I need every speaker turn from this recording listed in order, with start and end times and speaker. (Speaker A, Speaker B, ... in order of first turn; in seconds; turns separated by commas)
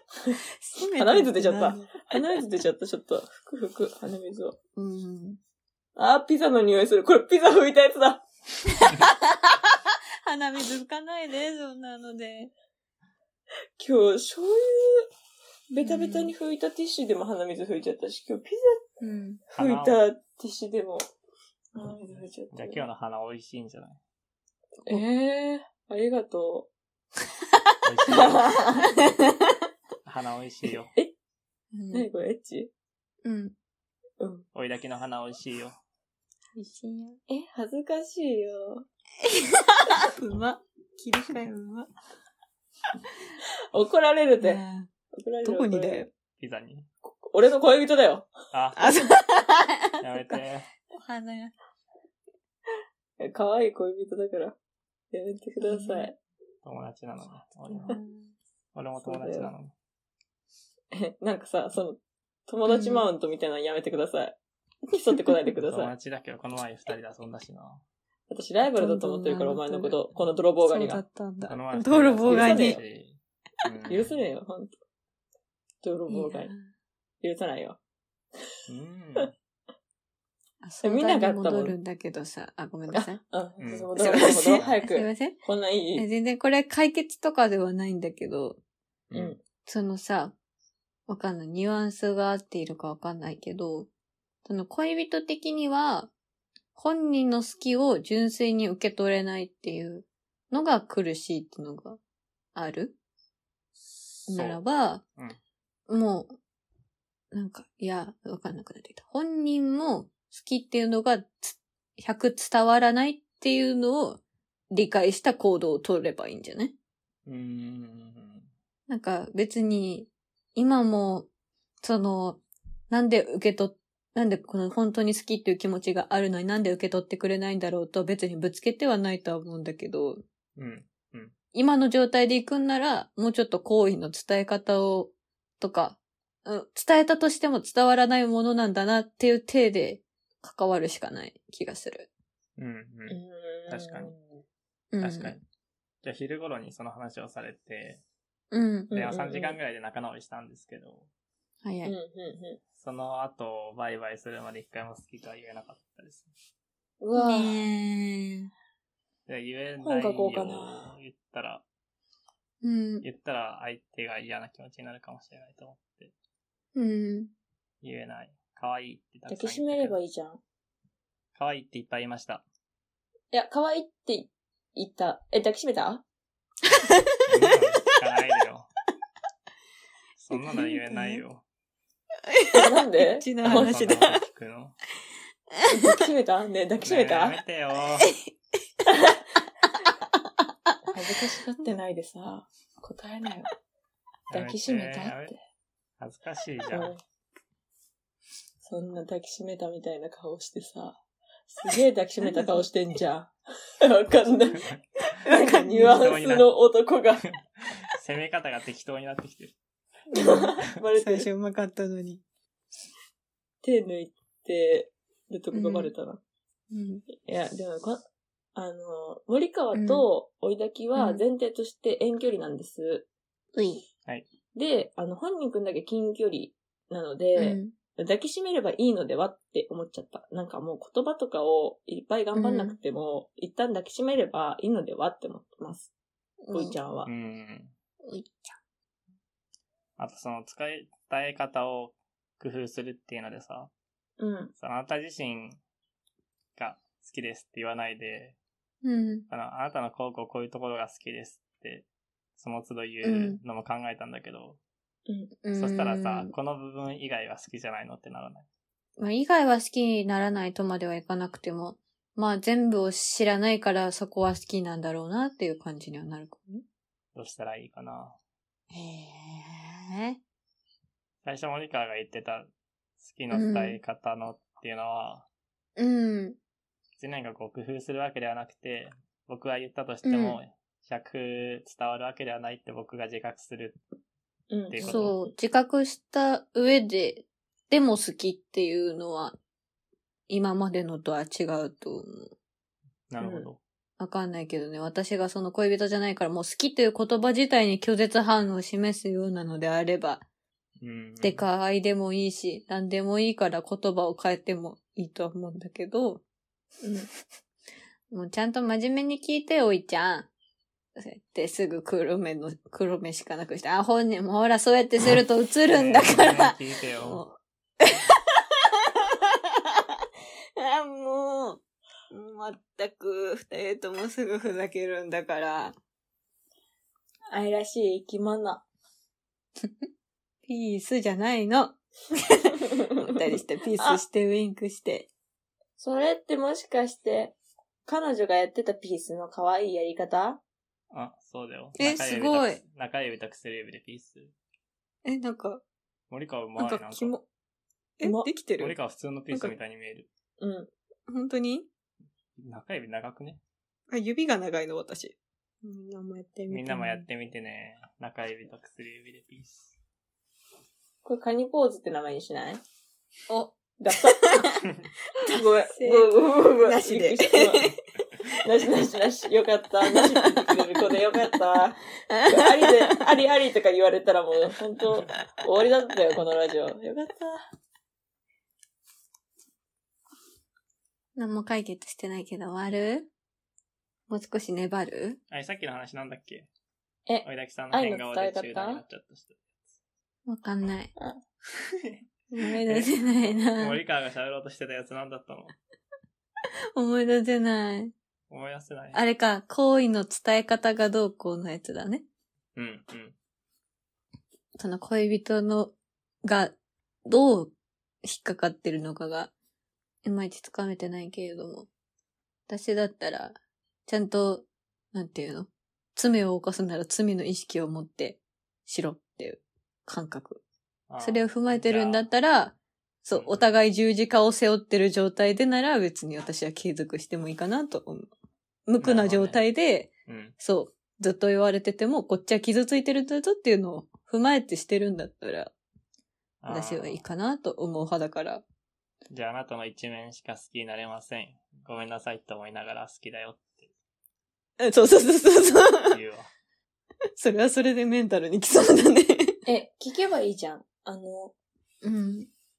Speaker A: 0.6-2.4, Speaker B: 1.0-4.6, Speaker A: 4.8-5.4, Speaker B: 6.0-8.2, Speaker A: 8.7-12.5, Speaker B: 13.8-15.1, Speaker B: 15.7-18.8, Speaker A: 15.8-16.3, Speaker A: 19.0-19.4, Speaker C: 19.5-20.0, Speaker B: 19.6-21.0, Speaker B: 21.7-22.8, Speaker C: 22.1-24.0, Speaker B: 24.8-26.7, Speaker C: 27.8-28.5, Speaker B: 28.1-28.9, Speaker C: 30.1-30.9, Speaker A: 31.7-32.1, Speaker B: 31.9-32.7, Speaker A: 33.2-33.5, Speaker B: 34.2-34.5, Speaker C: 34.5-35.8, Speaker A: 36.6-37.2, Speaker B: 37.3-38.9, Speaker A: 39.2-41.9, Speaker B: 43.7-44.6, Speaker A: 44.4-44.9, Speaker B: 45.1-46.1, Speaker A: 45.4-46.1, Speaker C: 46.4-46.9, Speaker B: 47.2-48.3, Speaker C: 48.5-48.9, Speaker A: 48.8-50.4, Speaker C: 50.0-50.7, Speaker A: 50.9-51.5, Speaker B: 53.2-54.6, Speaker B: 55.1-56.2, Speaker A: 55.6-56.1, Speaker C: 56.6-58.0, Speaker A: 57.7-58.3, Speaker C: 58.8-59.7, Speaker B: 59.0-59.5, Speaker B: 60.9-64.4, Speaker A: 62.7-63.1, Speaker B: 64.9-65.9, Speaker C: 65.6-67.8, Speaker B: 68.3-71.0, Speaker A: 68.7-70.0, Speaker A: 70.6-72.8, Speaker C: 71.5-74.2, Speaker B: 72.3-72.8, Speaker B: 73.9-74.7, Speaker B: 75.8-76.5, Speaker A: 76.1-76.7, Speaker B: 77.2-77.8, Speaker C: 78.7-79.3, Speaker A: 80.6-83.2, Speaker B: 80.8-81.8, Speaker B: 82.9-86.1, Speaker C: 83.6-83.9, Speaker A: 84.0-85.4, Speaker A: 86.0-88.6, Speaker B: 89.1-89.4, Speaker A: 89.7-90.3, Speaker A: 91.1-93.9, Speaker A: 94.5-96.1, Speaker A: 96.8-102.0, Speaker A: 102.5-103.0, Speaker C: 104.2-104.6, Speaker A: 104.3-105.0, Speaker A: 105.9-106.3, Speaker A: 107.3-116.7, Speaker C: 117.3-118.5, Speaker A: 118.9-121.3, Speaker A: 121.8-130.2, Speaker C: 130.6-131.3, Speaker A: 131.5-142.1, Speaker C: 142.6-144.1, Speaker B: 143.1-144.4, Speaker A: 144.9-145.4, Speaker C: 145.0-145.4, Speaker C: 146.0-148.0, Speaker A: 148.5-148.9, Speaker B: 148.9-149.6, Speaker C: 148.9-151.1, Speaker A: 151.6-151.9, Speaker B: 151.8-152.6, Speaker C: 152.8-156.3, Speaker B: 157.0-157.6, Speaker A: 157.2-158.5, Speaker C: 159.3-161.6, Speaker B: 159.8-160.9, Speaker A: 162.6-163.1, Speaker C: 163.0-166.1, Speaker A: 166.8-167.3, Speaker C: 167.8-169.9, Speaker B: 169.3-170.4, Speaker C: 171.3-172.4, Speaker B: 173.3-176.0, Speaker A: 176.9-177.9, Speaker C: 177.3-178.7, Speaker C: 180.2-181.4, Speaker A: 180.3-181.2, Speaker A: 182.3-184.2, Speaker B: 182.5-184.0, Speaker C: 183.4-184.8, Speaker A: 185.6-186.0, Speaker B: 185.7-187.4, Speaker C: 186.8-188.2, Speaker B: 188.9-189.2, Speaker A: 190.7-191.3, Speaker B: 190.9-193.5, Speaker C: 194.3-195.3, Speaker B: 194.3-195.4, Speaker C: 196.0-196.9, Speaker B: 196.7-197.0, Speaker B: 198.6-204.7, Speaker A: 202.2-202.6, Speaker A: 205.1-205.9, Speaker B: 205.3-207.3, Speaker C: 205.8-206.5, Speaker C: 207.2-209.6, Speaker A: 210.1-212.2, Speaker B: 210.1-211.3, Speaker B: 213.6-216.2, Speaker A: 215.5-215.9, Speaker A: 216.7-217.0, Speaker B: 217.2-218.0, Speaker B: 218.6-223.1, Speaker A: 219.7-220.1, Speaker A: 221.0-221.2, Speaker A: 223.6-223.8, Speaker B: 224.6-235.9, Speaker A: 227.4-227.7, Speaker A: 232.4-232.8, Speaker A: 236.4-236.8, Speaker B: 236.5-237.1, Speaker C: 237.1-237.7, Speaker A: 238.0-238.6, Speaker C: 240.0-243.7, Speaker B: 244.2-244.5, Speaker C: 244.6-245.6, Speaker C: 246.6-248.4, Speaker A: 248.8-249.3, Speaker C: 249.3-254.6, Speaker A: 253.0-253.4, Speaker B: 255.1-255.3, Speaker A: 255.4-256.3, Speaker C: 255.6-258.5, Speaker A: 259.0-266.6, Speaker C: 267.1-268.2, Speaker A: 268.7-270.2, Speaker C: 271.2-275.3, Speaker A: 273.3-273.8, Speaker A: 275.8-276.4, Speaker C: 277.0-283.8, Speaker A: 280.0-280.4, Speaker B: 284.5-285.1, Speaker C: 284.7-285.2, Speaker A: 284.8-289.4, Speaker A: 290.3-292.3, Speaker C: 293.1-293.6, Speaker B: 293.2-293.5, Speaker A: 294.0-300.2, Speaker C: 300.8-301.5, Speaker A: 301.2-306.2, Speaker A: 308.1-310.3, Speaker A: 311.0-318.4, Speaker C: 315.7-317.2, Speaker A: 320.6-321.6, Speaker A: 322.1-325.8, Speaker B: 327.3-328.6, Speaker A: 330.5-335.1, Speaker B: 332.6-332.9, Speaker B: 335.8-337.4, Speaker B: 337.9-340.4, Speaker C: 340.9-344.3, Speaker A: 341.8-342.6, Speaker A: 345.1-345.6, Speaker C: 346.1-347.2, Speaker A: 346.6-347.3, Speaker A: 348.0-348.8, Speaker B: 348.0-348.3, Speaker C: 348.6-350.1, Speaker B: 350.4-350.7, Speaker A: 351.1-351.7, Speaker C: 352.4-353.4, Speaker A: 353.9-357.1, Speaker C: 356.5-359.7, Speaker B: 361.0-362.6, Speaker A: 363.3-364.6, Speaker B: 363.8-364.5, Speaker A: 365.2-367.8, Speaker B: 365.2-367.7, Speaker B: 368.4-377.4, Speaker A: 369.9-370.6, Speaker A: 372.1-373.0, Speaker A: 381.2-383.1, Speaker A: 384.1-385.2, Speaker C: 385.3-386.5, Speaker B: 387.1-388.8, Speaker C: 387.2-389.7, Speaker A: 390.3-390.9, Speaker A: 392.3-393.8, Speaker C: 392.6-395.5, Speaker A: 396.8-397.9, Speaker C: 398.3-399.0, Speaker A: 398.9-402.0, Speaker C: 402.6-403.2, Speaker A: 404.6-406.5, Speaker A: 407.1-407.5, Speaker A: 408.0-409.3, Speaker A: 410.0-411.7, Speaker A: 412.5-413.4, Speaker A: 413.9-420.4, Speaker C: 420.9-422.1, Speaker A: 421.0-428.1, Speaker C: 423.1-423.5, Speaker A: 428.7-435.5, Speaker C: 428.8-429.4, Speaker C: 430.1-430.4, Speaker C: 436.4-437.0, Speaker A: 436.5-438.4, Speaker C: 439.1-443.7, Speaker A: 444.6-446.0, Speaker C: 445.9-446.3, Speaker A: 447.2-449.4, Speaker B: 449.5-451.3, Speaker A: 451.8-452.3